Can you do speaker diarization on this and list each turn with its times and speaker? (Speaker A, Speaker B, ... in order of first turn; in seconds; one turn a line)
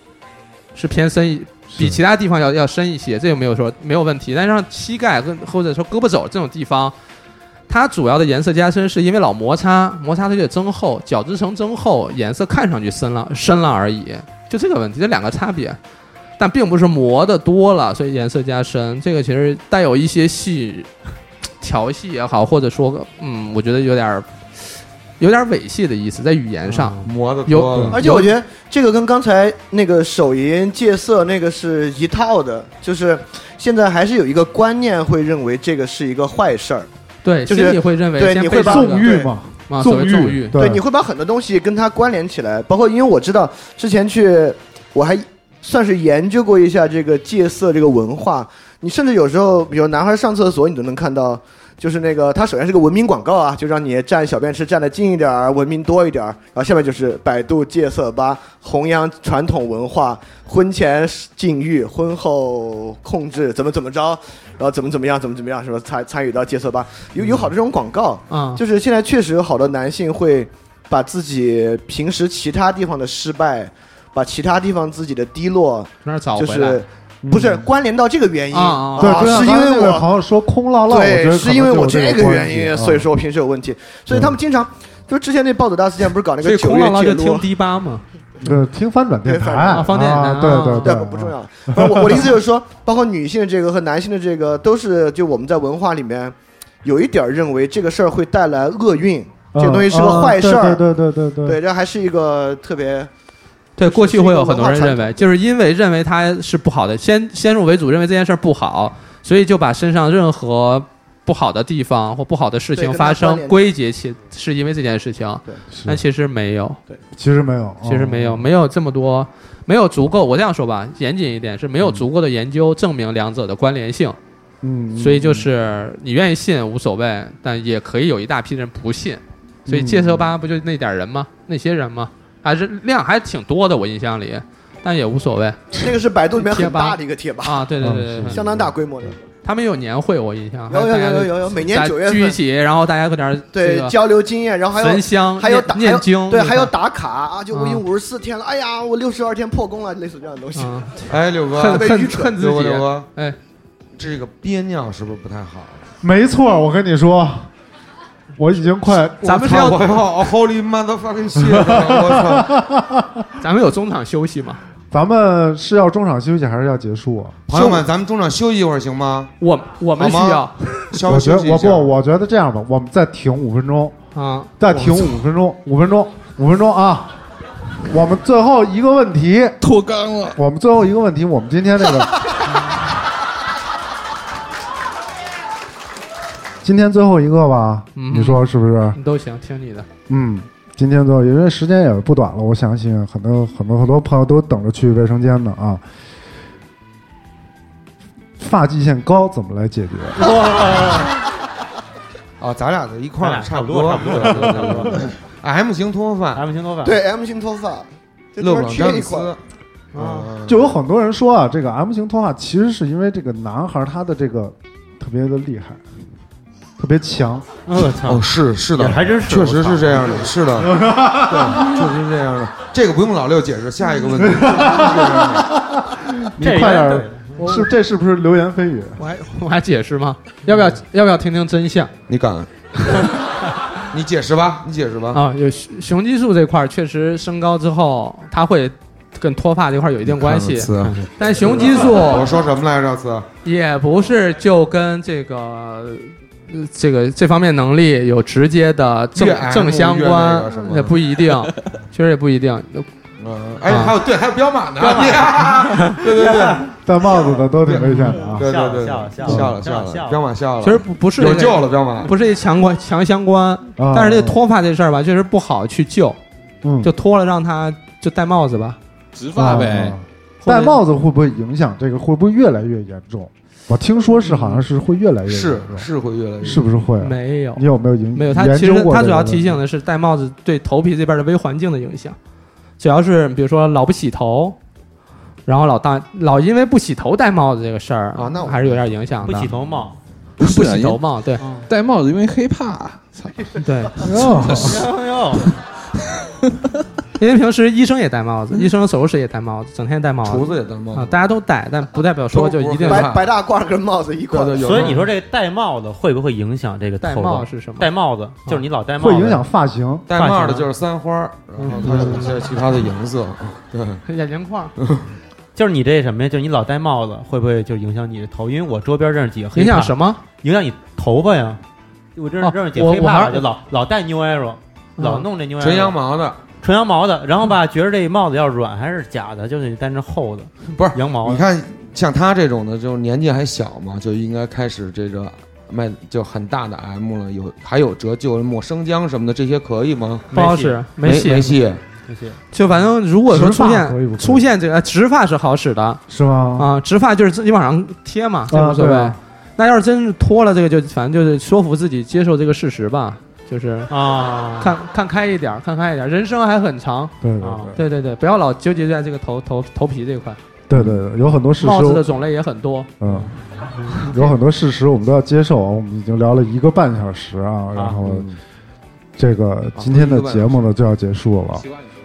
Speaker A: 0.7-6.9
Speaker B: 1.7-2.0
Speaker A: 7.7-15.8
Speaker A: 16.4-20.9
Speaker A: 21.6-24.3
Speaker A: 25.2-28.3
Speaker C: 26.7-27.1
Speaker D: 27.0-28.0
Speaker E: 27.9-36.9
Speaker A: 37.2-39.1
Speaker E: 37.5-39.3
Speaker B: 38.5-40.8
Speaker A: 39.7-40.6
Speaker E: 40.5-80.0
Speaker A: 68.3-68.6
Speaker A: 76.0-76.8
Speaker B: 77.2-77.7
Speaker A: 78.5-79.3
Speaker B: 79.0-83.1
Speaker E: 80.9-87.5
Speaker B: 84.1-84.3
Speaker A: 86.4-88.0
Speaker B: 88.4-92.3
Speaker E: 89.2-90.2
Speaker A: 89.7-90.9
Speaker E: 90.8-100.8
Speaker B: 99.5-101.6
Speaker E: 101.5-103.1
Speaker A: 103.8-116.8
Speaker E: 103.8-105.2
Speaker E: 112.8-113.7
Speaker B: 115.7-116.0
Speaker B: 117.1-118.5
Speaker A: 117.8-124.2
Speaker B: 124.6-125.5
Speaker A: 125.0-135.6
Speaker B: 129.7-130.3
Speaker E: 135.7-137.7
Speaker A: 136.4-138.4
Speaker B: 137.8-139.1
Speaker E: 138.2-139.2
Speaker A: 139.4-143.9
Speaker E: 140.7-142.4
Speaker E: 143.5-150.8
Speaker A: 144.7-146.7
Speaker A: 147.5-147.8
Speaker A: 150.5-153.3
Speaker D: 151.1-153.1
Speaker E: 151.7-152.3
Speaker D: 153.9-155.8
Speaker B: 156.0-157.5
Speaker B: 158.3-159.8
Speaker A: 159.2-160.0
Speaker D: 159.4-162.5
Speaker B: 161.4-163.2
Speaker A: 163.4-164.6
Speaker B: 164.9-167.4
Speaker D: 167.5-169.3
Speaker A: 169.4-170.9
Speaker D: 170.0-171.9
Speaker B: 171.0-174.0
Speaker A: 174.1-174.5
Speaker B: 174.6-177.2
Speaker B: 177.8-179.6
Speaker F: 179.6-180.4
Speaker B: 180.3-182.2
Speaker B: 186.6-189.0
Speaker A: 187.9-189.9
Speaker B: 190.1-195.8
Speaker B: 198.4-200.3
Speaker C: 200.2-201.2
Speaker D: 202.4-206.4
Speaker C: 203.2-205.1
Speaker C: 206.3-207.0
Speaker E: 206.8-209.3
Speaker D: 208.4-209.4
Speaker C: 209.9-210.3
Speaker D: 209.9-210.7
Speaker B: 210.5-215.8
Speaker B: 216.8-217.4
Speaker C: 217.7-220.3
Speaker D: 218.1-225.5
Speaker B: 220.6-221.8
Speaker B: 224.2-229.0
Speaker C: 226.4-227.4
Speaker A: 227.4-227.7
Speaker A: 229.0-231.9
Speaker D: 232.1-232.5
Speaker D: 233.9-235.2
Speaker A: 235.1-242.4
Speaker D: 240.1-243.2
Speaker C: 240.8-241.1
Speaker A: 243.4-252.9
Speaker D: 249.1-251.0
Speaker D: 253.2-256.7
Speaker A: 253.6-253.9
Speaker C: 254.8-256.6
Speaker B: 256.8-258.5
Speaker D: 257.8-262.1
Speaker C: 258.2-260.2
Speaker B: 259.2-259.6
Speaker A: 260.6-266.2
Speaker B: 263.8-264.4
Speaker B: 266.6-266.9
Speaker A: 266.8-268.8
Speaker F: 269.1-269.9
Speaker B: 269.4-275.9
Speaker A: 270.4-270.8
Speaker A: 274.3-274.6
Speaker D: 275.3-276.7
Speaker B: 276.4-279.6
Speaker A: 277.0-282.1
Speaker A: 282.8-284.6
Speaker A: 285.4-289.5
Speaker D: 288.1-288.8
Speaker C: 289.2-290.0
Speaker F: 290.4-291.0
Speaker A: 290.4-291.4
Speaker C: 291.4-291.7
Speaker F: 291.7-294.8
Speaker A: 293.6-294.0
Speaker B: 294.0-294.8
Speaker C: 294.6-295.5
Speaker A: 297.2-303.1
Speaker D: 300.2-301.1
Speaker D: 302.3-303.2
Speaker E: 302.9-304.7
Speaker D: 304.3-305.1
Speaker C: 304.6-309.5
Speaker A: 307.0-307.9
Speaker B: 309.0-310.1
Speaker D: 310.1-314.0
Speaker C: 310.1-310.7
Speaker C: 311.6-312.5
Speaker A: 314.1-314.7
Speaker D: 314.8-315.1
Speaker C: 315.5-321.6
Speaker A: 319.5-320.2
Speaker C: 322.1-326.0
Speaker A: 322.4-323.4
Speaker A: 325.0-325.3
Speaker D: 325.6-326.4
Speaker C: 326.6-331.4
Speaker D: 330.7-340.3
Speaker C: 340.3-340.9
Speaker A: 340.3-341.6
Speaker D: 341.0-341.8
Speaker C: 342.1-342.4
Speaker A: 342.5-346.0
Speaker B: 343.2-344.4
Speaker B: 346.1-346.7
Speaker A: 346.6-353.9
Speaker B: 348.5-349.2
Speaker C: 353.9-354.7
Speaker A: 354.6-357.1
Speaker B: 357.2-357.8
Speaker C: 357.4-357.7
Speaker A: 357.7-360.4
Speaker B: 360.7-362.0
Speaker D: 360.7-361.0
Speaker A: 361.6-362.9
Speaker B: 363.0-363.3
Speaker C: 363.8-364.1
Speaker B: 364.0-368.3
Speaker C: 367.7-368.0
Speaker D: 368.0-368.4
Speaker B: 369.2-371.7
Speaker D: 369.8-370.6